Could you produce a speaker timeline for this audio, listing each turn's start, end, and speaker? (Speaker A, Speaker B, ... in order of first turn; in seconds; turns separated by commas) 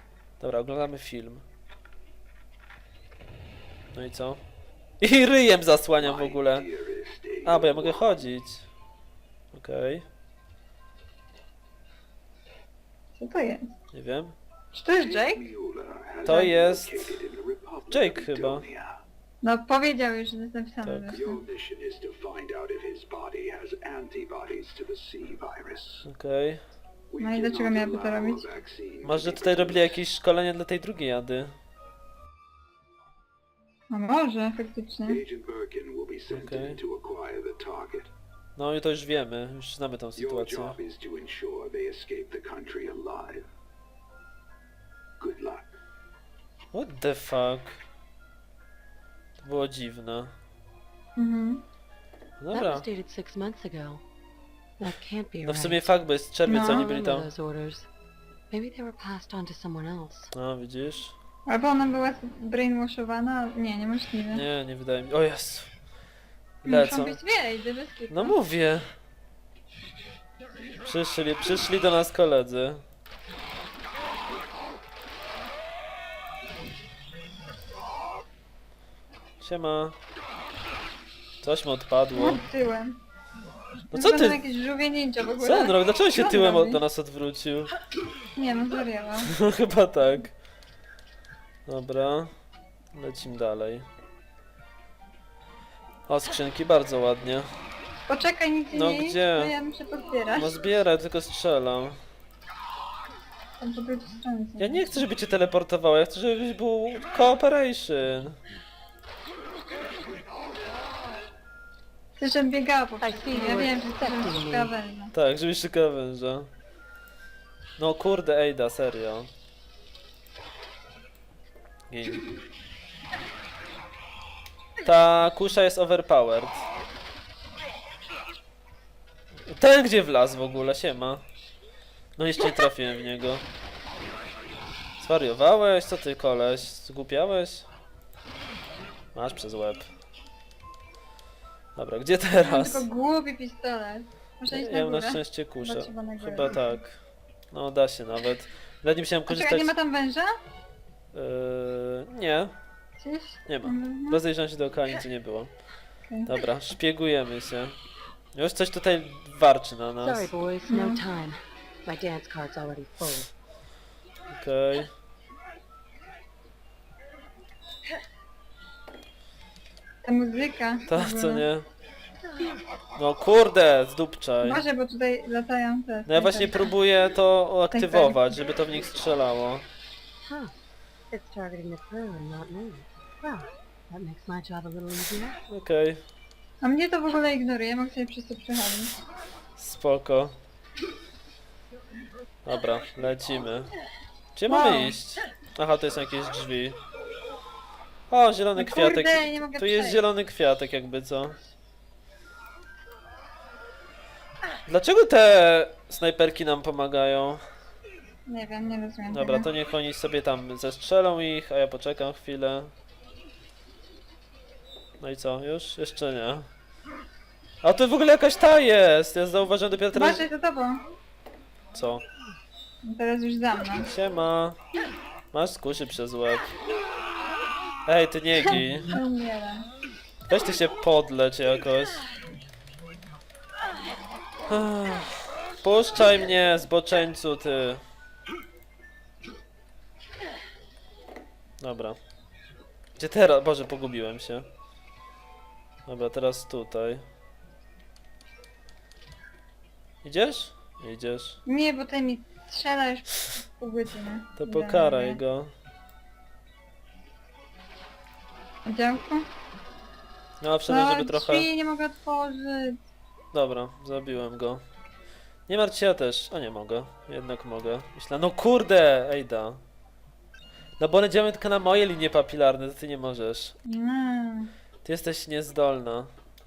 Speaker A: 0.4-1.4, Speaker A: 3.9-4.4, Speaker A: 5.0-6.7, Speaker B: 6.0-8.2, Speaker A: 7.4-8.7, Speaker A: 9.5-10.1, Speaker C: 13.2-13.7, Speaker A: 13.9-14.3, Speaker C: 14.7-15.5, Speaker B: 15.0-19.0, Speaker A: 16.2-17.2, Speaker A: 17.9-18.6, Speaker C: 19.4-21.4, Speaker A: 20.8-21.2, Speaker B: 21.1-26.1, Speaker A: 26.0-26.6, Speaker B: 27.1-29.9, Speaker C: 27.2-28.5, Speaker A: 29.0-31.6, Speaker C: 33.9-35.2, Speaker B: 35.1-38.1, Speaker A: 36.3-36.8, Speaker A: 38.6-40.8, Speaker B: 40.1-43.5, Speaker B: 45.2-45.7, Speaker A: 46.7-47.8, Speaker A: 49.4-50.3, Speaker C: 51.1-51.6, Speaker A: 52.4-52.9, Speaker D: 52.5-54.0, Speaker D: 54.8-55.9, Speaker A: 55.4-57.3, Speaker C: 56.5-56.9, Speaker D: 56.5-57.9, Speaker D: 58.5-60.3, Speaker A: 60.4-61.1, Speaker C: 61.5-64.5, Speaker A: 64.3-65.7, Speaker A: 66.6-67.2, Speaker C: 66.7-68.4, Speaker A: 68.1-68.9, Speaker A: 70.8-72.8, Speaker A: 79.4-80.0, Speaker A: 81.4-82.4, Speaker C: 82.1-83.0, Speaker A: 83.9-84.4, Speaker C: 83.9-86.8, Speaker A: 85.4-87.7, Speaker C: 88.4-89.3, Speaker A: 89.2-90.3, Speaker A: 91.7-92.3, Speaker A: 92.9-93.9, Speaker A: 96.1-97.5, Speaker C: 98.1-100.6, Speaker A: 98.7-99.5, Speaker A: 100.3-102.0, Speaker C: 103.6-105.0, Speaker A: 104.6-108.4, Speaker C: 112.2-115.1, Speaker D: 113.0-114.7, Speaker A: 115.1-116.5, Speaker A: 117.8-119.3, Speaker A: 121.9-122.3, Speaker A: 124.8-126.7, Speaker A: 129.5-131.2, Speaker A: 132.2-133.4, Speaker A: 135.0-137.7, Speaker A: 139.1-139.9, Speaker A: 141.8-142.9, Speaker C: 142.4-146.8, Speaker A: 144.5-147.0, Speaker A: 147.5-149.7, Speaker C: 149.3-150.3, Speaker A: 151.1-152.5, Speaker C: 153.0-154.2, Speaker A: 153.5-155.5, Speaker A: 156.3-157.8, Speaker A: 158.3-160.3, Speaker D: 160.0-163.3, Speaker C: 160.7-161.0, Speaker A: 164.3-164.9, Speaker C: 170.0-171.4, Speaker A: 170.9-171.7, Speaker A: 173.0-174.6, Speaker C: 174.4-176.7, Speaker A: 176.1-179.7, Speaker C: 177.7-178.4, Speaker D: 180.2-180.5, Speaker D: 181.1-185.4, Speaker A: 185.5-186.0, Speaker C: 186.6-188.9, Speaker A: 189.6-190.4, Speaker A: 192.4-193.7, Speaker A: 194.3-196.8, Speaker C: 194.5-194.9, Speaker A: 198.1-201.4, Speaker C: 198.6-200.0, Speaker A: 204.7-207.4, Speaker C: 208.3-209.5, Speaker A: 209.1-212.7, Speaker A: 215.0-216.5, Speaker A: 217.6-220.2, Speaker C: 219.9-220.8, Speaker A: 221.7-222.0, Speaker C: 222.8-223.9, Speaker A: 223.9-224.6, Speaker A: 225.3-226.6, Speaker A: 227.9-229.0, Speaker C: 228.5-229.7, Speaker A: 230.3-232.0, Speaker A: 234.5-237.8, Speaker A: 241.6-242.0, Speaker A: 243.0-244.5, Speaker A: 245.9-247.0, Speaker A: 250.0-251.4, Speaker C: 251.5-255.2, Speaker A: 254.4-255.5, Speaker C: 258.6-259.3, Speaker A: 260.4-261.5, Speaker C: 260.7-262.8, Speaker A: 263.3-264.6, Speaker A: 265.5-269.6, Speaker A: 270.8-273.6, Speaker C: 273.6-274.5, Speaker A: 274.8-276.1